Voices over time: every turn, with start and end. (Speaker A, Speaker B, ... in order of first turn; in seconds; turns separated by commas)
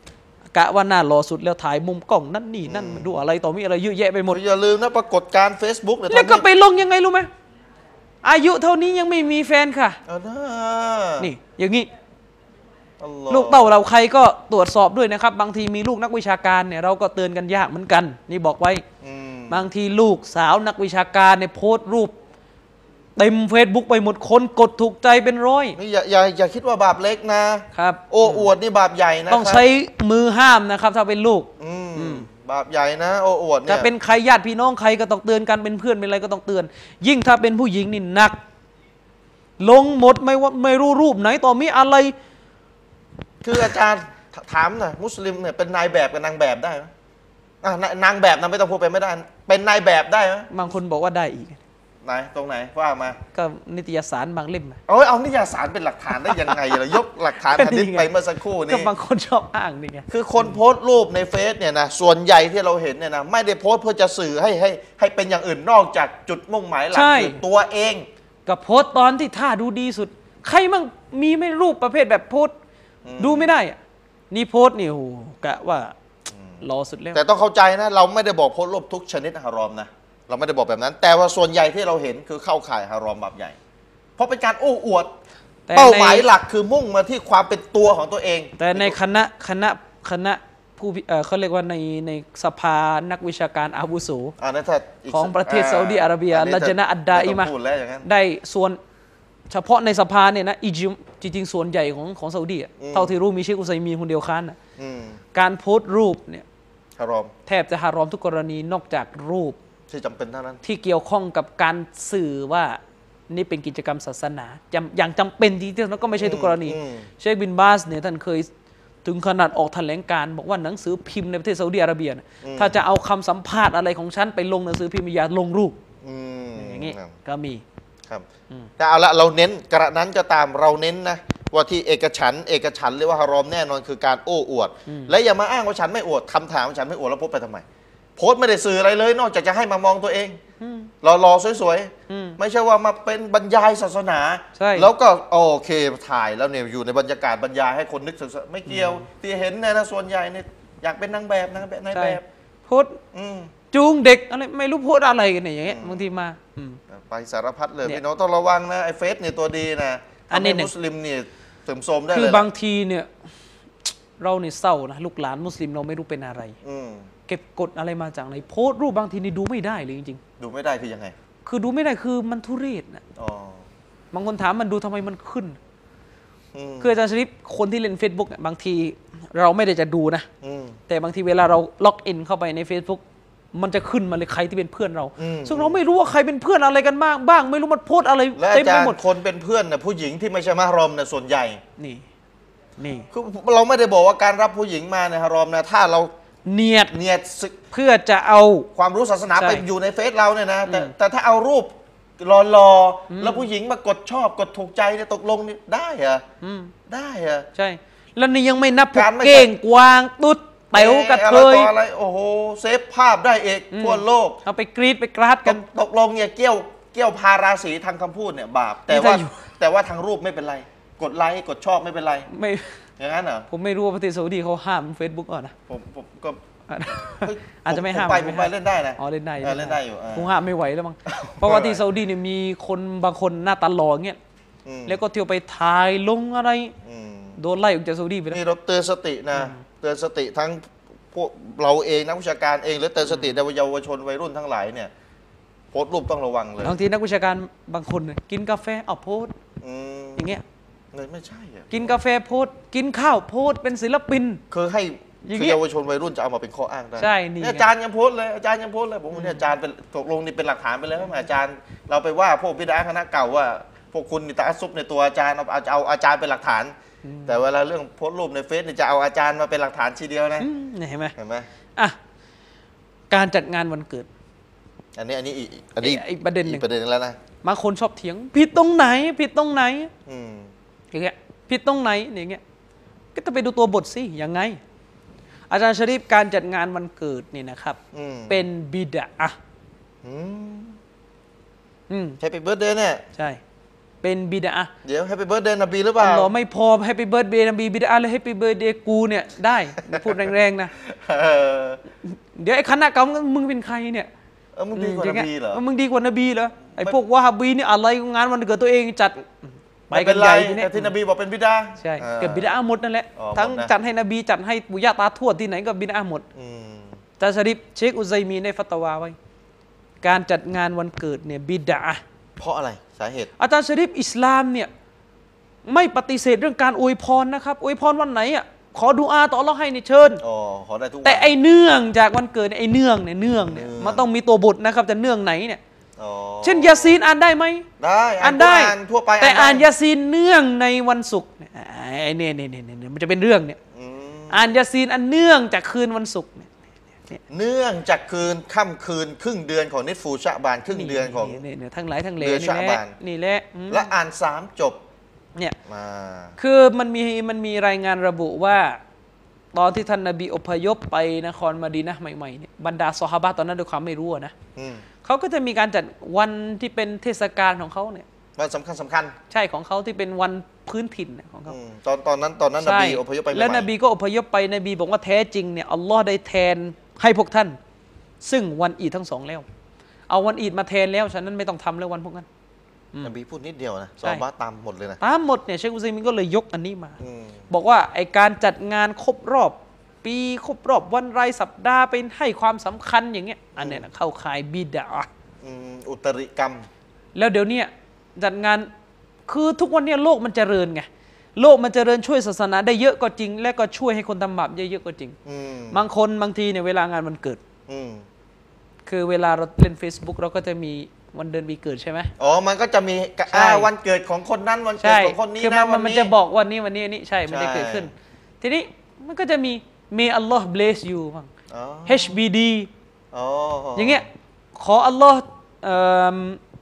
Speaker A: 0.5-4.4, Speaker B: 2.6-3.1, Speaker B: 4.3-6.4, Speaker A: 6.1-7.3, Speaker A: 8.2-10.0, Speaker B: 10.1-11.3, Speaker A: 11.2-11.9, Speaker B: 13.0-13.7, Speaker A: 13.3-18.8, Speaker B: 19.0-19.6, Speaker A: 19.5-22.1, Speaker A: 23.1-25.8, Speaker B: 25.7-29.6, Speaker A: 27.7-28.5, Speaker A: 29.3-32.3, Speaker B: 31.6-33.9, Speaker A: 33.7-38.4, Speaker A: 39.6-42.1, Speaker B: 43.4-46.9, Speaker B: 47.6-50.5, Speaker A: 50.5-51.6, Speaker B: 52.0-53.2, Speaker A: 53.3-54.8, Speaker B: 54.9-58.9, Speaker A: 56.2-58.1, Speaker A: 58.7-60.6, Speaker B: 60.1-68.0, Speaker A: 66.9-67.4, Speaker A: 68.5-72.5, Speaker B: 73.0-73.5, Speaker A: 73.2-73.8, Speaker A: 74.3-75.9, Speaker A: 76.6-77.2, Speaker B: 77.1-83.6, Speaker B: 84.2-85.1, Speaker A: 85.7-86.3, Speaker B: 85.7-89.0, Speaker A: 88.6-94.3, Speaker B: 94.4-98.0, Speaker A: 95.1-97.5, Speaker A: 98.0-98.8, Speaker A: 99.5-104.6, Speaker B: 102.8-103.1, Speaker B: 104.8-105.2, Speaker A: 105.3-106.4, Speaker B: 107.0-107.3, Speaker A: 107.5-109.6, Speaker B: 109.9-110.6, Speaker A: 110.6-118.5, Speaker B: 116.2-117.1, Speaker A: 119.0-125.8, Speaker B: 122.4-122.8, Speaker B: 126.0-127.2, Speaker A: 126.5-127.6, Speaker B: 128.8-137.6, Speaker A: 134.9-135.1, Speaker B: 138.2-140.4, Speaker A: 140.6-140.9, Speaker B: 141.0-152.2, Speaker A: 142.1-142.4, Speaker A: 144.5-144.9, Speaker A: 148.7-149.0, Speaker A: 151.9-153.0, Speaker B: 153.1-153.5, Speaker A: 153.7-156.8, Speaker B: 155.6-156.1, Speaker B: 156.9-162.5, Speaker A: 160.3-160.7, Speaker A: 162.1-163.1, Speaker A: 163.9-166.5, Speaker B: 166.6-167.1, Speaker A: 167.3-170.2, Speaker B: 170.4-171.1, Speaker A: 171.4-173.0, Speaker B: 173.2-173.6, Speaker A: 174.1-175.6, Speaker B: 176.5-176.9, Speaker A: 176.8-180.3, Speaker B: 180.4-180.8, Speaker A: 180.9-189.0, Speaker B: 185.2-185.8, Speaker B: 188.3-191.6, Speaker A: 191.8-192.0, Speaker A: 192.8-193.1, Speaker B: 193.1-196.1, Speaker A: 196.4-196.9, Speaker B: 196.9-197.6, Speaker A: 197.7-198.7, Speaker B: 198.7-206.2, Speaker A: 199.3-199.6, Speaker A: 200.6-200.9, Speaker A: 203.1-203.5, Speaker A: 206.4-206.7, Speaker B: 206.9-207.5, Speaker A: 207.5-211.7, Speaker B: 208.9-209.5, Speaker B: 210.7-214.4, Speaker A: 213.7-215.6, Speaker B: 215.4-222.3, Speaker A: 218.9-219.3, Speaker A: 222.3-222.7, Speaker B: 223.0-223.5, Speaker A: 223.5-225.5, Speaker B: 225.7-226.4, Speaker A: 226.7-234.2, Speaker B: 226.9-230.3, Speaker B: 231.1-231.8, Speaker B: 234.6-235.0, Speaker A: 234.8-236.7, Speaker B: 236.8-237.4, Speaker A: 237.4-238.4, Speaker B: 238.3-244.9, Speaker A: 239.3-239.6, Speaker A: 243.1-243.4, Speaker B: 245.7-246.8, Speaker A: 246.6-249.3, Speaker B: 249.6-250.4, Speaker A: 250.2-250.4, Speaker B: 250.9-251.9, Speaker A: 251.7-254.4, Speaker B: 254.5-266.7, Speaker A: 255.2-255.6, Speaker A: 257.0-257.6, Speaker A: 259.1-259.4, Speaker A: 267.0-267.4, Speaker B: 267.2-270.5, Speaker A: 270.4-271.1, Speaker B: 271.2-271.5, Speaker A: 273.1-274.1, Speaker B: 275.0-277.2, Speaker A: 275.8-276.6, Speaker A: 277.4-279.9, Speaker B: 280.1-280.5, Speaker A: 280.9-282.4, Speaker A: 283.1-284.6, Speaker A: 285.5-287.8, Speaker B: 287.9-288.4, Speaker A: 288.3-289.3, Speaker B: 290.0-290.8, Speaker A: 291.9-292.2, Speaker B: 292.2-293.0, Speaker A: 294.0-294.7, Speaker B: 294.8-296.3, Speaker A: 296.0-300.7, Speaker B: 299.8-301.8, Speaker A: 302.0-304.1, Speaker B: 304.5-305.6, Speaker A: 304.7-310.9, Speaker B: 306.7-307.0, Speaker B: 309.9-312.5, Speaker A: 311.8-316.2, Speaker B: 313.1-313.7, Speaker B: 316.3-317.0, Speaker A: 317.2-319.1, Speaker A: 320.0-322.0, Speaker B: 322.4-323.3, Speaker A: 323.4-324.7, Speaker A: 325.6-330.2, Speaker B: 330.2-331.3, Speaker A: 331.0-335.6, Speaker B: 333.4-334.1, Speaker B: 336.0-337.0, Speaker A: 336.4-337.6, Speaker B: 337.8-339.6, Speaker A: 338.2-343.6, Speaker B: 343.7-344.5, Speaker A: 344.3-346.5, Speaker B: 347.3-351.4, Speaker A: 350.7-353.9, Speaker B: 352.2-352.9, Speaker B: 353.7-354.8, Speaker B: 355.6-356.4, Speaker A: 356.4-358.8, Speaker A: 359.5-364.3, Speaker B: 364.6-364.9, Speaker A: 365.0-368.1, Speaker B: 368.4-369.1, Speaker A: 369.3-371.6, Speaker B: 371.5-373.7, Speaker A: 372.6-377.6, Speaker A: 378.2-379.4, Speaker A: 380.1-382.3, Speaker B: 383.0-385.0, Speaker A: 385.0-387.0, Speaker B: 387.0-387.4, Speaker A: 387.5-395.1, Speaker B: 393.6-393.8, Speaker B: 395.4-396.7, Speaker A: 397.1-398.7, Speaker A: 399.3-405.1, Speaker B: 405.2-405.8, Speaker A: 405.7-407.4, Speaker B: 407.7-408.1, Speaker A: 408.9-412.1, Speaker B: 412.2-416.1, Speaker A: 413.3-413.7, Speaker A: 414.8-421.3, Speaker B: 417.3-417.9, Speaker B: 421.5-422.2, Speaker A: 421.9-422.7, Speaker B: 423.1-424.1, Speaker A: 423.8-426.4